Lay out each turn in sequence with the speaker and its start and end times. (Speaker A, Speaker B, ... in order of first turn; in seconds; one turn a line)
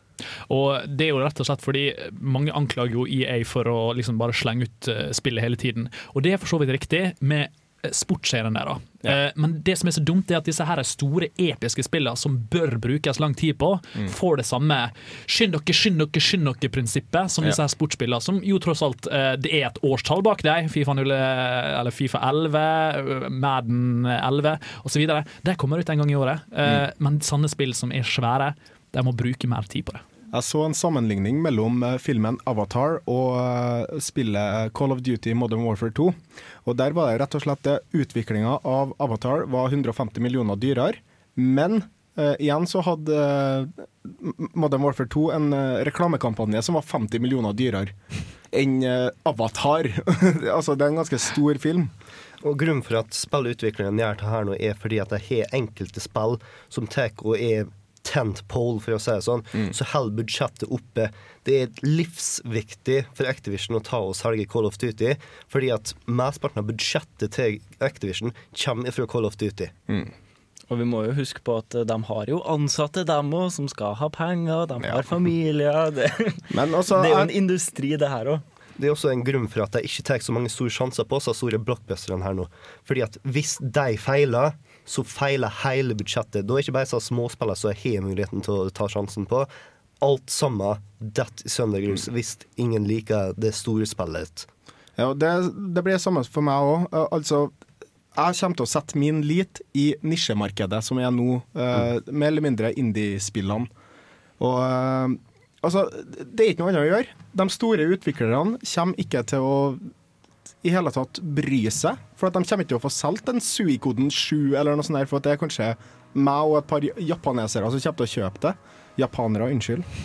Speaker A: 0.5-30.0
Speaker B: 30.3-47.9
Speaker B: 48.5-51.9
Speaker C: 52.4-69.8
Speaker D: 70.7-78.4
Speaker B: 76.5-77.3
Speaker C: 78.8-89.5
Speaker C: 90.0-94.5
Speaker B: 95.0-97.5
Speaker B: 98.2-103.7
Speaker B: 104.4-109.9
Speaker B: 110.6-119.9